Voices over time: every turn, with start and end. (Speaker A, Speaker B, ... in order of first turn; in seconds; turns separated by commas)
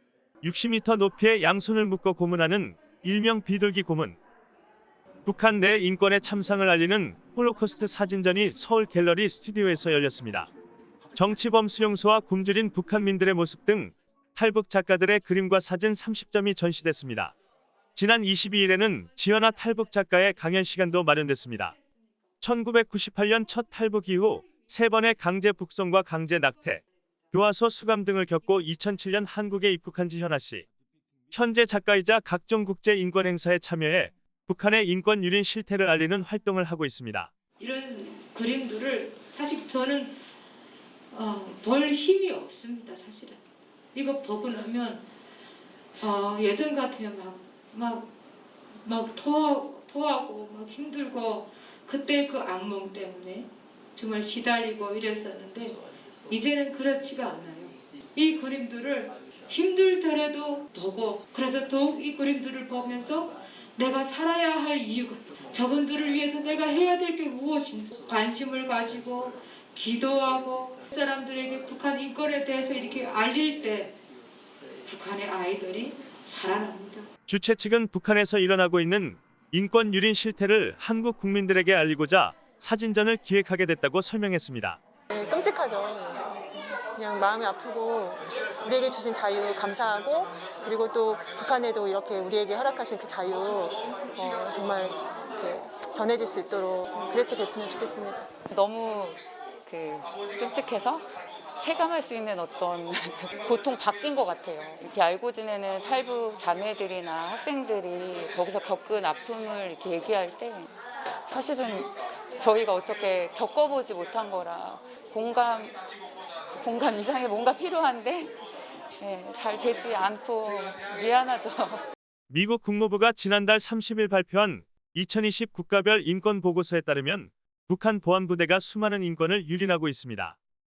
Speaker A: 0.4-4.2, Speaker A: 5.2-10.5, Speaker A: 11.1-17.3, Speaker A: 17.9-21.7, Speaker A: 22.4-30.6, Speaker A: 31.3-37.3, Speaker B: 37.6-40.2, Speaker B: 41.1-43.4, Speaker B: 43.9-45.0, Speaker B: 46.0-48.1, Speaker B: 48.8-74.0, Speaker B: 74.8-77.1, Speaker A: 77.3-84.8, Speaker C: 85.1-98.3, Speaker D: 98.5-101.1, Speaker D: 101.6-110.7, Speaker D: 111.3-115.8, Speaker D: 116.6-118.3, Speaker D: 119.0-121.8, Speaker A: 122.3-130.3